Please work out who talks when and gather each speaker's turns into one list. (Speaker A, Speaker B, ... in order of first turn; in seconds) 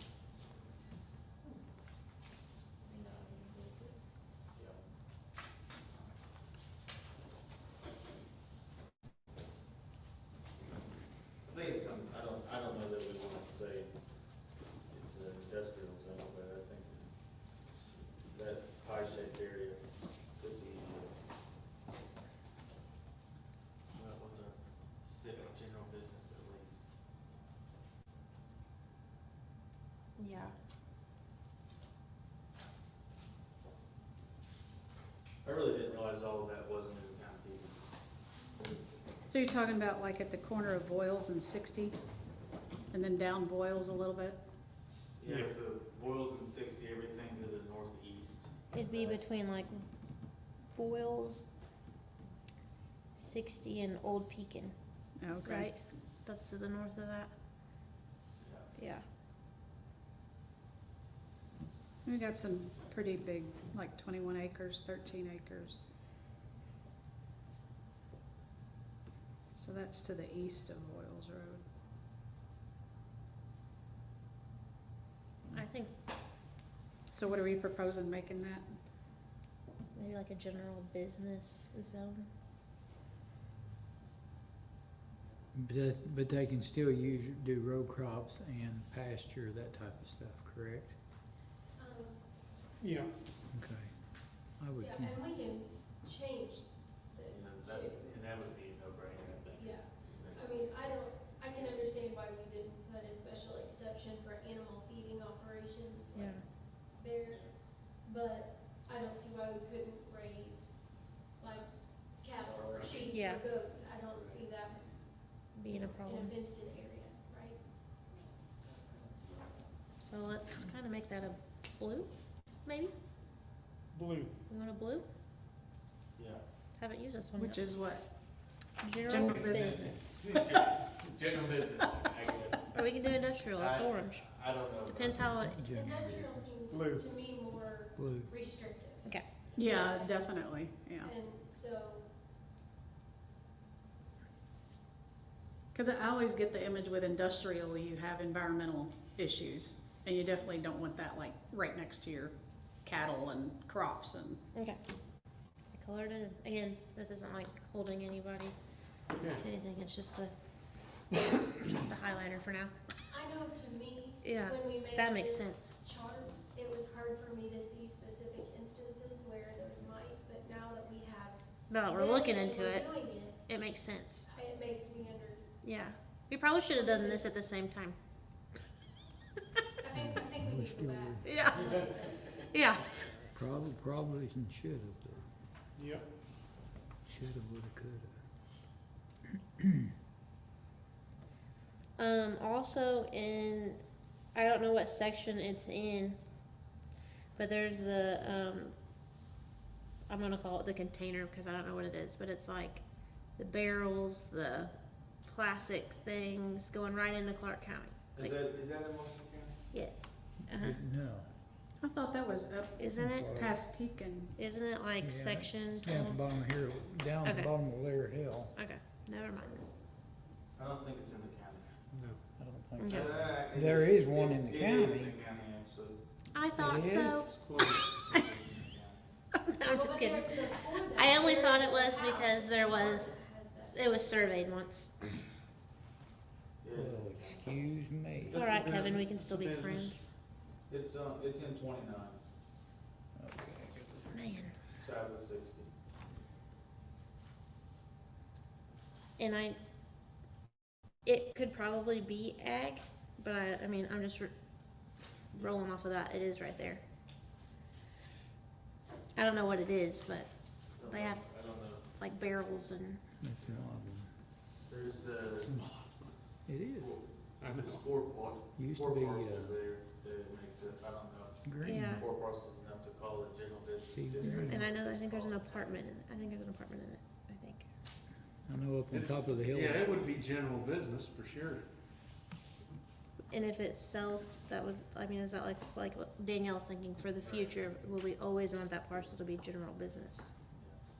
Speaker A: 2.8-4.0, 48.7-49.8, 50.7-51.5, 53.2-54.7, 55.4-57.3, 58.8-59.0, 75.5-75.9, 79.9-82.3, 106.1-106.4, 113.1-113.4, 115.5-116.3, 120.0-122.1, 122.6-122.9, 124.5-125.0, 126.8-127.6, 128.8-130.0, 132.7-134.2, 134.9-135.6, 154.5-154.8, 155.7-158.5, 159.3-160.3, 161.5-162.7, 164.2-165.6, 171.7-174.3, 175.6-177.9, 181.2-181.7, 182.5-182.9, 192.0-193.8, 194.3-196.2, 197.3-198.7, 200.1-202.8, 203.4-204.7, 205.2-208.3, 210.5-210.8, 212.8-213.6, 214.3-216.2, 217.2-217.5, 218.5-219.6, 222.8-223.1, 226.3-227.3, 229.4-233.1, 233.7-234.9, 238.3-240.1, 244.1-244.6, 249.2-249.6, 251.0-254.3, 255.3-256.8, 259.1-261.2, 261.9-263.0, 271.6-272.0, 274.2-277.7, 283.3-290.3
Speaker B: 4.5-4.8, 11.4-13.9, 14.9-17.1, 18.2-19.8, 20.4-21.1, 23.9-26.9, 35.4-37.7, 45.2-49.2, 58.4-58.7, 97.3-101.9, 107.2-107.5, 112.3-113.2, 114.0-114.5, 126.2-126.4, 129.1-132.7, 133.6-135.2, 139.4-139.8, 208.1-209.6, 220.5-221.7, 222.8-226.0, 227.6-229.0, 236.6-237.5, 238.3-240.1, 240.7-242.2, 244.7-245.7, 260.8-261.8, 263.4-263.7, 264.6-265.5, 266.8-275.7, 287.2-287.8, 290.5-290.8
Speaker C: 39.2-42.0, 42.9-44.4, 55.2-55.7, 62.0-65.9, 69.5-71.6, 77.1-78.8, 127.4-128.0, 129.0-130.4, 139.6-141.1, 145.7-154.4, 211.8-214.3
Speaker D: 45.2-45.5, 92.8-93.1, 123.9-124.3, 136.7-137.1, 159.1-159.4, 185.8-186.0, 221.9-222.2, 226.5-228.2, 265.4-266.1, 267.4-267.9, 278.9-281.6
Speaker E: 85.5-90.9, 93.5-95.2, 135.2-136.5, 138.0-138.3, 179.9-181.8, 183.3-185.3, 187.0-188.2, 210.5-211.3, 212.9-213.6, 215.0-218.5, 222.3-225.2, 226.6-227.0, 236.7-238.7, 243.1-244.7, 263.2-264.1, 266.4-267.0, 268.6-269.6, 271.4-272.0, 273.9-274.6, 278.5-280.0
Speaker F: 91.8-92.2, 94.8-98.0, 99.6-114.8, 115.9-117.6, 118.7-119.5, 135.7-139.1, 139.7-140.2, 141.0-142.1, 163.1-173.5, 174.3-175.4, 176.7-177.3, 179.8-182.5, 229.6-234.2